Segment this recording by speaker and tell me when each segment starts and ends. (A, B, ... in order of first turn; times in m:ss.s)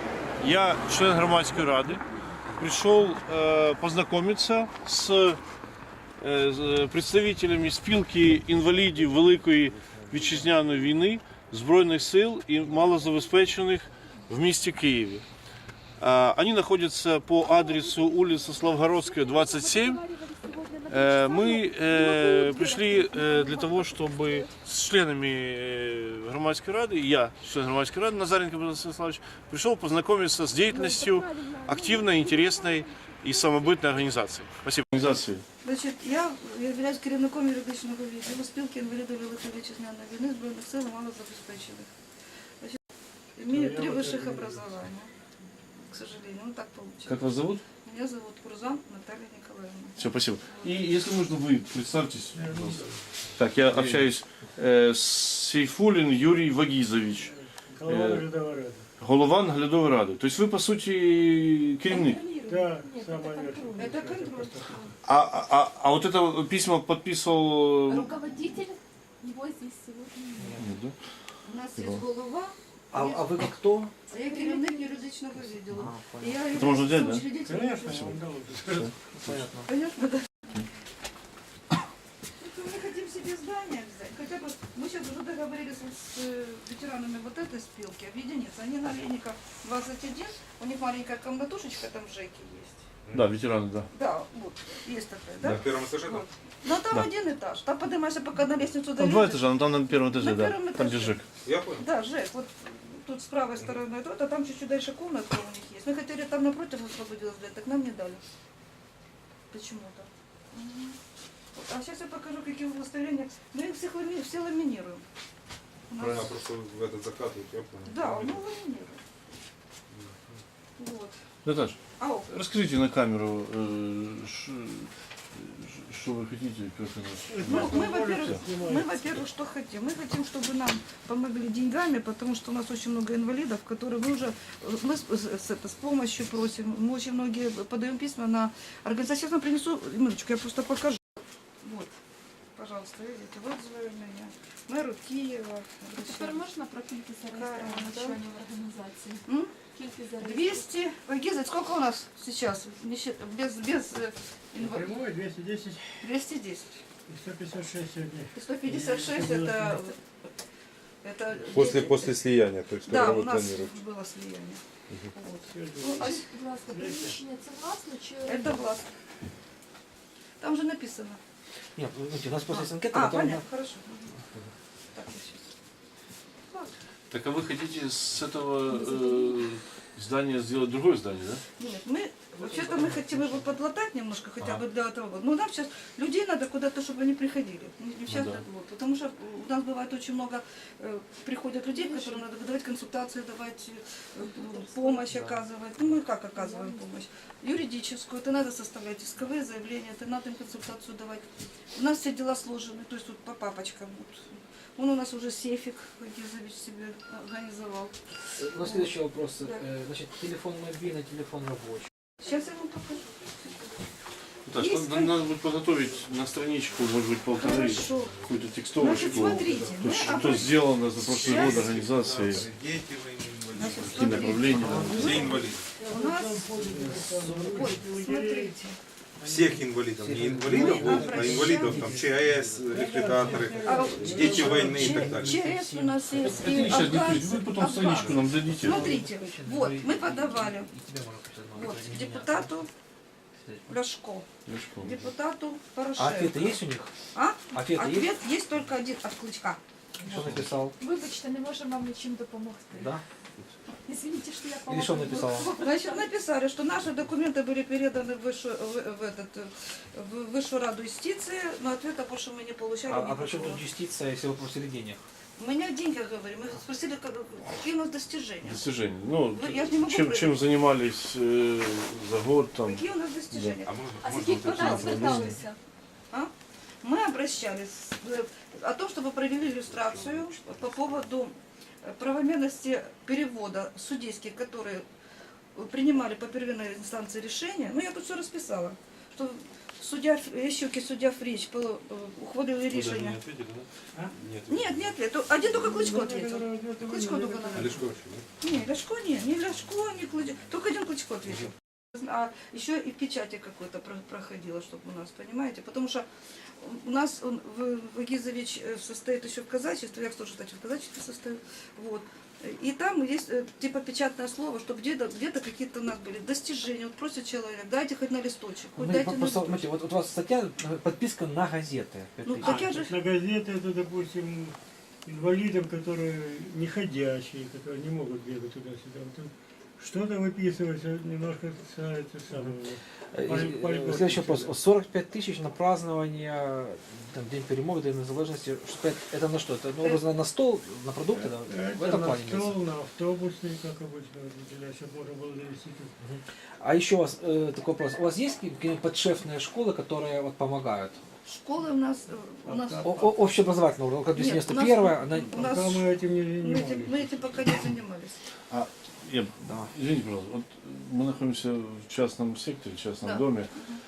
0:00.4-0:02.0 A
0:02.5-0:05.4 A
0:06.2-0:15.2 A
0:16.0-0:20.0 A
0:17.4-0:24.5 B
0:20.9-0:35.4 A
0:30.7-0:34.0 B
0:35.6-0:41.9 C
0:43.4-0:45.1 C
0:43.5-0:44.8 D
0:45.9-0:47.3 C
0:47.0-0:47.6 A
0:47.8-0:50.8 C
0:50.0-0:52.8 A
0:52.3-0:53.0 D
0:53.4-0:57.3 A
0:53.7-0:54.0 E
0:57.1-0:58.9 D
0:57.8-0:58.2 A
0:59.0-1:02.2 A
1:01.8-1:03.9 B
1:02.5-1:04.9 D
1:03.8-1:04.9 C
1:05.0-1:08.1 A
1:07.9-1:10.6 B
1:10.6-1:10.9 A
1:11.4-1:13.5 C
1:11.8-1:12.0 A
1:12.9-1:13.9 E
1:14.1-1:18.1 C
1:14.2-1:15.0 B
1:15.7-1:16.4 E
1:16.5-1:17.2 A
1:17.4-1:18.9 D
1:17.9-1:19.4 A
1:19.2-1:19.7 E
1:19.6-1:20.3 C
1:22.4-1:32.8 C
1:33.0-1:33.3 F
1:33.1-1:33.9 A
1:33.9-1:41.2 C
1:35.4-1:36.3 F
1:39.0-1:41.3 A
1:41.4-1:41.9 F
1:41.8-1:48.2 C
1:49.5-1:51.0 C
1:51.5-1:55.0 C
1:55.9-1:56.3 C
1:56.0-1:58.4 F
1:57.8-1:59.0 C
1:59.9-2:00.3 F
2:00.8-2:01.1 C
2:01.4-2:01.8 A
2:02.0-2:02.3 C
2:02.3-2:08.4 A
2:07.2-2:09.1 D
2:07.4-2:21.0 C
2:21.6-2:21.9 C
2:22.6-2:26.4 C
2:26.0-2:30.6 B
2:27.3-2:28.2 C
2:29.2-2:29.5 C
2:30.2-2:34.9 C
2:34.6-2:36.1 D
2:36.0-2:36.8 C
2:37.1-2:39.8 D
2:38.3-2:40.0 C
2:41.0-2:42.2 C
2:41.5-2:43.7 F
2:42.8-2:44.6 C
2:45.1-2:46.3 C
2:45.4-2:47.2 D
2:46.0-2:48.7 B
2:48.2-2:48.9 C
2:50.4-2:51.2 C
2:51.8-2:53.4 E
2:52.5-2:54.1 C
2:54.9-2:55.5 C
2:57.1-3:01.4 A
2:58.7-2:59.4 B
3:01.6-3:27.9 C
3:02.4-3:03.5 E
3:08.1-3:08.4 A
3:11.7-3:12.2 B
3:14.5-3:15.0 B
3:16.3-3:16.8 B
3:28.4-3:31.8 E
3:28.4-3:29.6 C
3:32.2-3:33.3 C
3:34.5-3:42.5 A
3:34.5-3:35.2 C
3:37.3-3:38.2 C
3:38.8-3:40.6 C
3:38.8-3:45.6 F
3:41.2-3:41.7 C
3:43.5-3:48.8 C
3:43.8-3:45.1 A
3:44.6-3:45.2 E
3:44.8-3:48.6 D
3:47.3-3:47.7 E
3:49.2-3:49.8 D
3:49.2-3:55.4 F
3:50.0-3:52.8 E
3:50.4-3:52.0 C
3:52.7-3:55.2 D
3:53.6-4:00.7 C
3:54.8-4:02.6 E
3:56.3-3:58.9 A
4:01.5-4:02.7 C
4:03.4-4:03.8 E
4:03.7-4:04.3 C
4:04.4-4:05.0 A
4:04.8-4:06.6 C
4:06.0-4:06.9 E
4:07.1-4:09.6 C
4:07.5-4:08.1 E
4:10.0-4:10.8 E
4:10.8-4:12.9 B
4:12.7-4:13.0 E
4:13.8-4:16.1 B
4:14.6-4:15.5 E
4:15.0-4:23.6 C
4:22.8-4:25.0 E
4:25.4-4:28.7 C
4:28.4-4:33.6 A
4:29.3-4:30.4 C
4:32.6-4:33.8 C
4:33.6-4:35.4 F
4:34.0-4:35.6 B
4:34.4-4:34.8 C
4:34.4-4:35.4 A
4:36.8-4:44.8 C
4:39.7-4:40.9 F
4:45.5-4:53.2 C
4:52.7-4:53.6 F
4:54.1-4:54.9 F
4:54.5-4:57.8 C
4:55.4-4:58.0 D
4:57.5-4:58.2 F
4:58.4-5:06.1 C
5:06.6-5:19.7 C
5:18.7-5:22.7 E
5:22.2-5:23.0 C
5:22.4-5:34.5 D
5:33.1-5:42.6 E
5:41.3-5:45.9 D
5:46.0-5:51.0 E
5:51.2-5:52.9 C
5:52.4-5:53.2 D
5:52.8-5:55.4 E
5:54.1-5:55.9 C
5:55.3-5:57.3 D
5:56.4-5:58.2 C
5:58.5-6:03.5 A
5:59.4-5:59.7 E
6:03.0-6:03.8 C